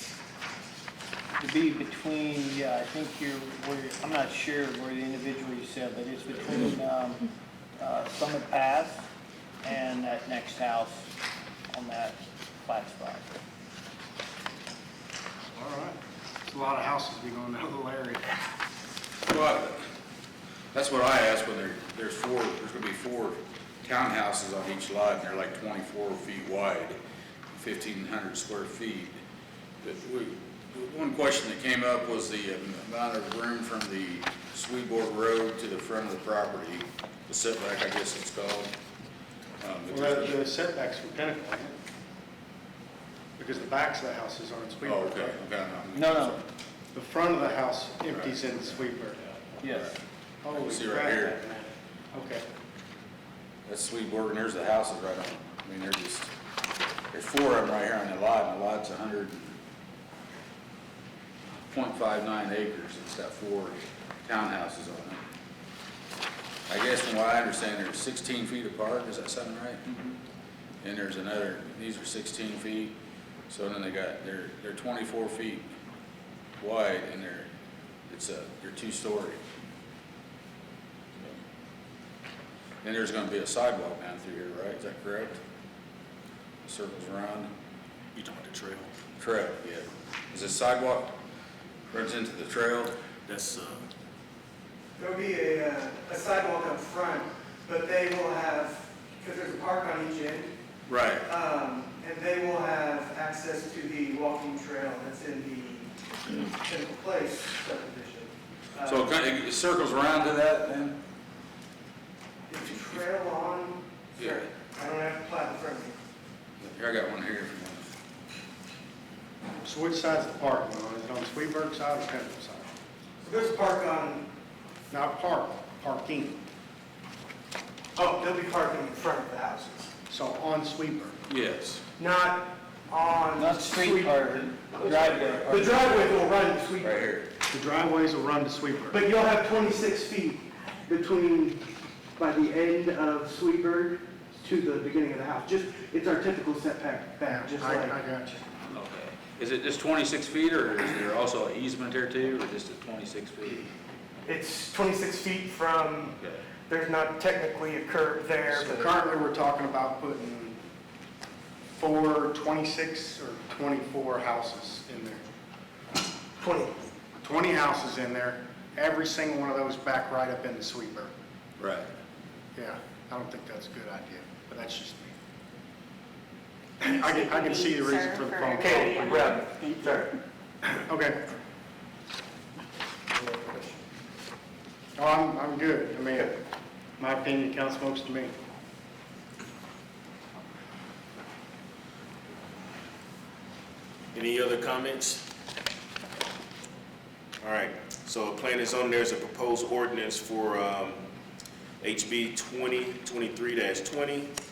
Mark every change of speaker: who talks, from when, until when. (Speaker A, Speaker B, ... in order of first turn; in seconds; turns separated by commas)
Speaker A: 1.4-7.3, Speaker A: 7.8-9.1, Speaker A: 9.6-11.1, Speaker A: 11.7-13.2, Speaker B: 15.5-18.4, Speaker C: 19.3-19.8, Speaker C: 20.7-27.0, Speaker C: 27.6-29.2, Speaker C: 29.8-38.7, Speaker C: 39.6-40.4, Speaker B: 39.9-41.8, Speaker B: 43.4-45.4, Speaker C: 44.8-46.4, Speaker A: 46.0-46.4, Speaker B: 46.9-49.2, Speaker A: 49.6-49.9, Speaker C: 49.7-50.0, Speaker B: 50.4-52.4, Speaker C: 50.5-51.4, Speaker C: 53.7-56.3, Speaker C: 57.1-59.5, Speaker C: 61.7-65.2, Speaker C: 66.7-69.8, Speaker C: 70.8-72.9, Speaker C: 73.5-75.7, Speaker C: 76.6-77.5, Speaker C: 78.1-79.4, Speaker C: 82.8-85.4, Speaker C: 86.7-87.5, Speaker D: 88.2-89.0, Speaker C: 89.2-91.2, Speaker C: 91.9-93.0, Speaker D: 93.3-93.8, Speaker E: 95.0-100.5, Speaker C: 100.9-101.2, Speaker E: 101.2-109.1, Speaker C: 108.8-111.0, Speaker E: 112.5-116.0, Speaker C: 116.6-117.9, Speaker B: 119.6-122.7, Speaker E: 123.2-124.3, Speaker B: 124.9-126.4, Speaker E: 128.0-129.9, Speaker B: 130.1-131.2, Speaker C: 131.3-131.8, Speaker E: 132.0-137.0, Speaker A: 133.3-135.9, Speaker C: 136.8-137.3, Speaker B: 137.5-139.0, Speaker E: 138.9-141.7, Speaker E: 142.2-148.0, Speaker B: 147.3-148.4, Speaker C: 148.7-153.7, Speaker E: 154.3-156.2, Speaker E: 156.7-159.0, Speaker B: 158.5-160.6, Speaker B: 161.8-165.2, Speaker E: 166.4-166.8, Speaker B: 167.2-171.1, Speaker C: 171.6-171.9, Speaker B: 172.6-175.1, Speaker B: 176.8-179.0, Speaker E: 178.6-180.1, Speaker B: 180.8-181.2, Speaker B: 185.0-186.3, Speaker B: 187.0-188.3, Speaker D: 194.1-195.2, Speaker D: 197.4-201.0, Speaker D: 201.8-204.3